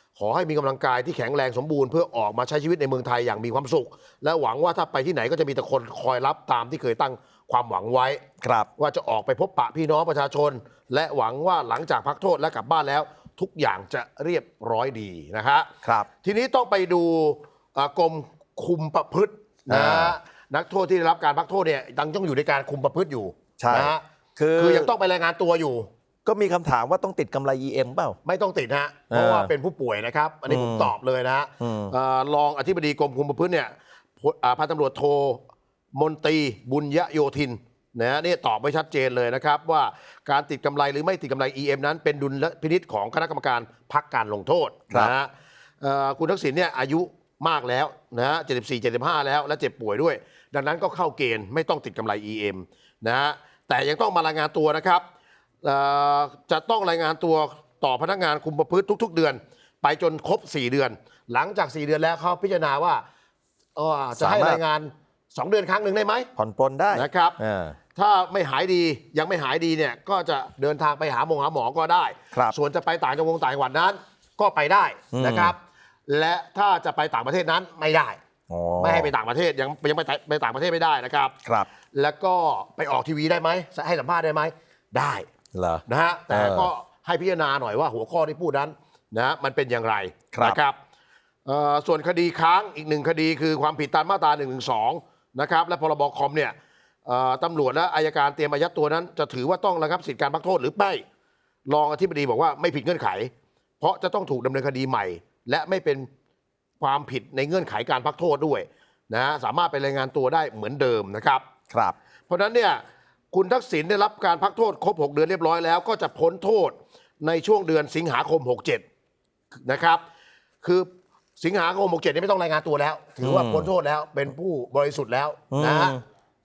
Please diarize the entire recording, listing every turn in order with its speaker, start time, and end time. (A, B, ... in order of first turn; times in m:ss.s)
0:00.2-0:08.2 A
0:08.4-0:08.7 B
0:08.8-0:24.0 A
0:19.7-0:20.2 B
0:23.6-0:24.9 B
0:24.6-0:25.9 A
0:26.2-0:28.2 B
0:28.2-0:35.4 A
0:29.1-0:29.5 B
0:30.5-0:30.9 B
0:31.6-0:31.9 B
0:35.9-0:55.0 A
0:55.6-1:03.0 A
1:03.8-1:06.3 A
1:04.2-1:04.6 B
1:06.4-1:07.8 B
1:06.9-1:07.4 A
1:08.0-1:15.6 A
1:15.1-1:15.5 B
1:16.1-1:18.2 A
1:18.5-1:19.1 B
1:18.8-1:21.4 A
1:21.4-1:21.7 B
1:21.9-1:25.3 A
1:25.5-1:26.7 B
1:25.9-1:30.8 A
1:30.3-1:30.6 B
1:31.4-1:41.0 A
1:41.7-1:46.1 A
1:46.8-1:51.5 A
1:51.7-1:52.0 B
1:52.3-1:58.8 A
1:59.6-2:00.0 A
2:00.6-2:06.0 A
2:03.2-2:03.7 B
2:05.5-2:06.0 B